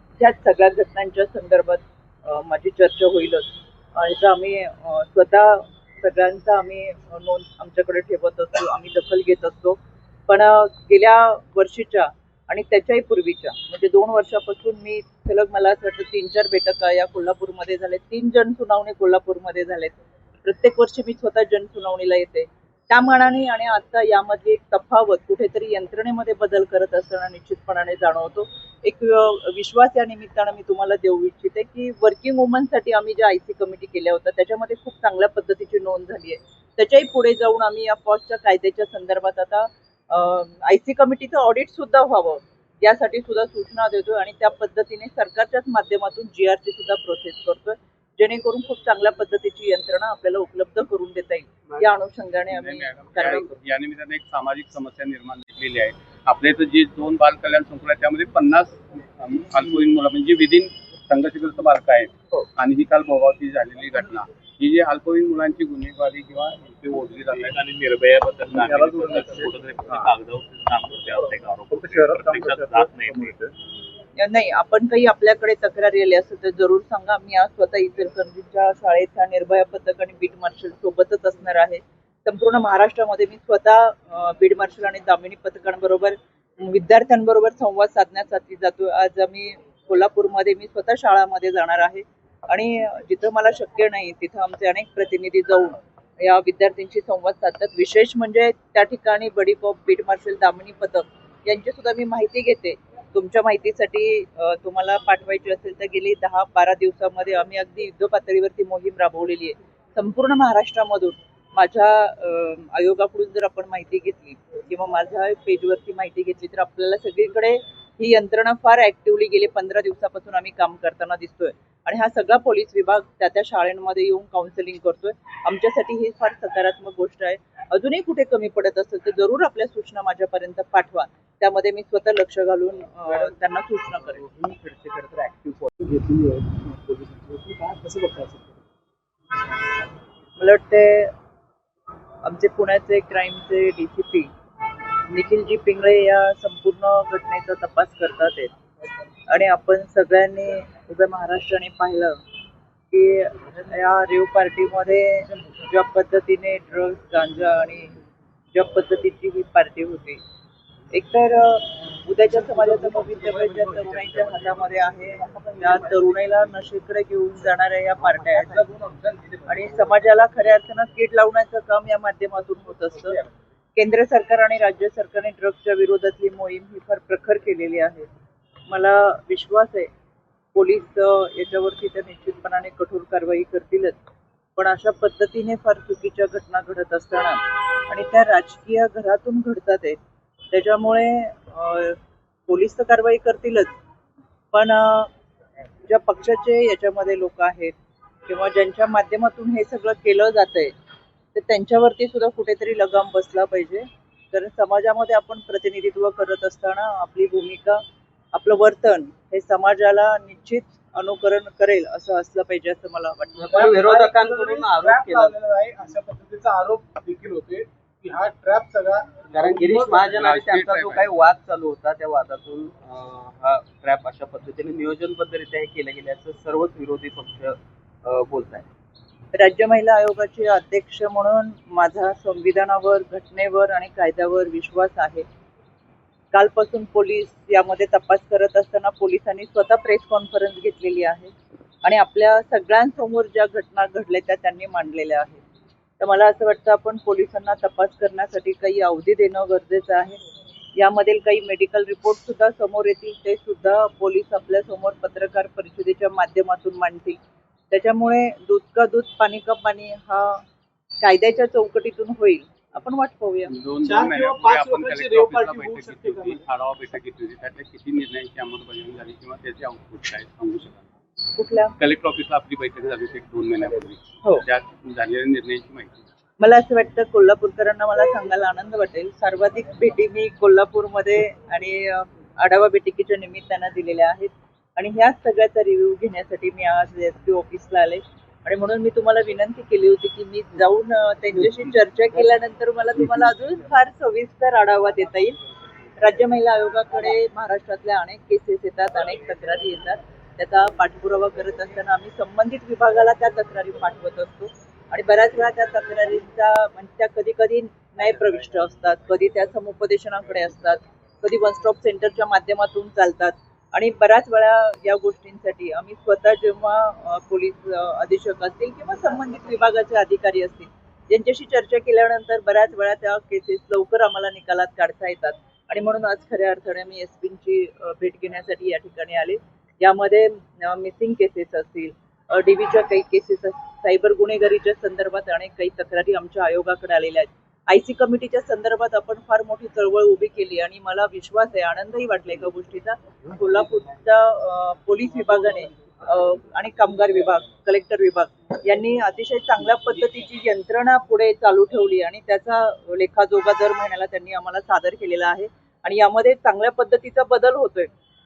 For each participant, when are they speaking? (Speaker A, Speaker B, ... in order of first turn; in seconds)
Speaker A: 0.2-53.5, 74.2-134.2, 140.4-141.1, 142.2-144.3, 145.1-148.5, 149.3-152.2, 152.9-158.0, 158.5-160.2, 160.9-168.6, 169.5-173.2, 173.8-178.1, 178.7-179.9, 180.5-183.9, 184.6-190.0, 190.5-193.7, 194.5-195.1, 195.9-197.8, 198.3-200.7, 201.3-207.8, 208.3-213.7, 229.3-235.2, 236.3-245.4, 246.0-250.2, 250.7-257.2, 257.7-260.4, 261.0-263.5, 271.4-271.7, 276.4-295.4, 296.0-357.9
Speaker B: 52.5-67.6, 220.1-221.1, 263.5-270.9, 271.8-276.1
Speaker C: 67.3-73.3
Speaker D: 68.5-70.1, 71.7-73.5, 135.9-138.5, 162.3-164.7, 165.3-165.8, 168.1-169.6, 213.5-220.2, 263.8-266.4
Speaker E: 133.1-133.3, 133.9-135.8, 213.4-215.4, 219.3-228.7